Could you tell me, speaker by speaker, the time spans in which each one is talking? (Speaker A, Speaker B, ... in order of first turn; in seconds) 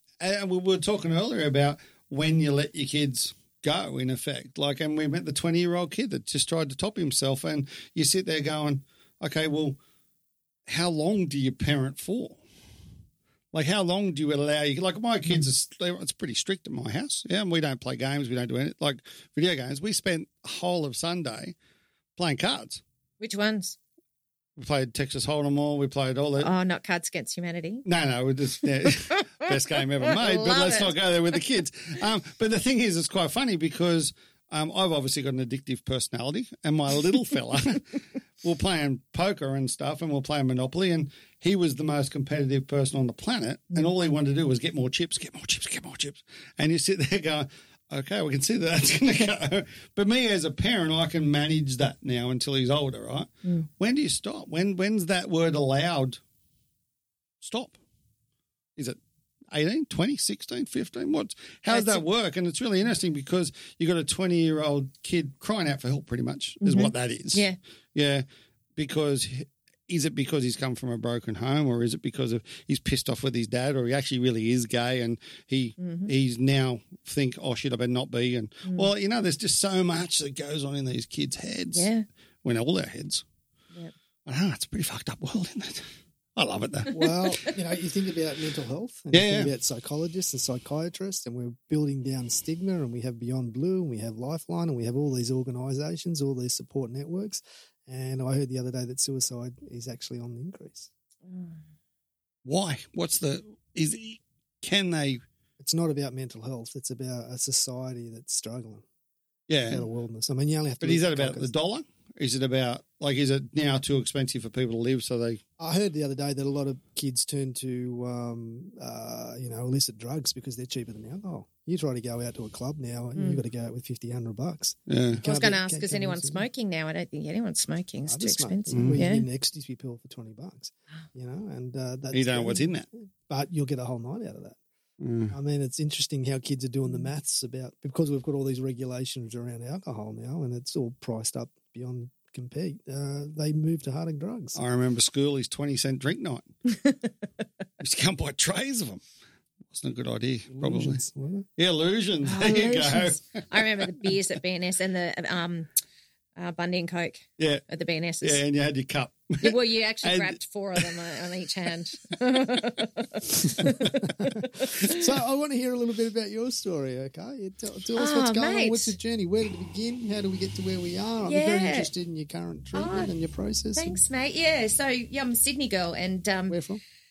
Speaker A: 0.2-9.8, 10.7-12.4, 13.5-21.5, 22.1-22.8, 24.6-26.5, 27.8-56.2, 57.4-57.7, 59.5-68.2, 68.8-81.9, 82.4-83.2, 84.2-87.0, 89.1-89.5, 102.4-105.2, 109.5-109.8, 110.8-115.4, 124.9-125.2, 128.7-129.0, 132.1-132.8, 135.0-135.3, 144.6-146.5, 147.8-149.0, 149.7-151.0, 151.6-154.1, 157.4-157.6, 158.2-160.9
Speaker B: 23.2-23.8, 26.4-27.8, 29.0-29.3, 30.0-30.9, 61.7-62.0, 66.6-67.6, 75.8-76.1, 81.7-82.0, 101.2-101.6, 123.1-123.4, 125.2-129.2, 152.2-155.7, 156.3-158.4, 159.4-165.0, 167.9-168.9, 171.2-171.9, 172.7-173.1, 173.7-176.6
Speaker C: 86.9-100.9, 105.6-108.8, 109.7-111.5, 115.6-126.5, 128.1-132.7, 133.3-134.6, 135.3-144.6, 150.5-151.5, 163.8-174.0, 176.5-176.8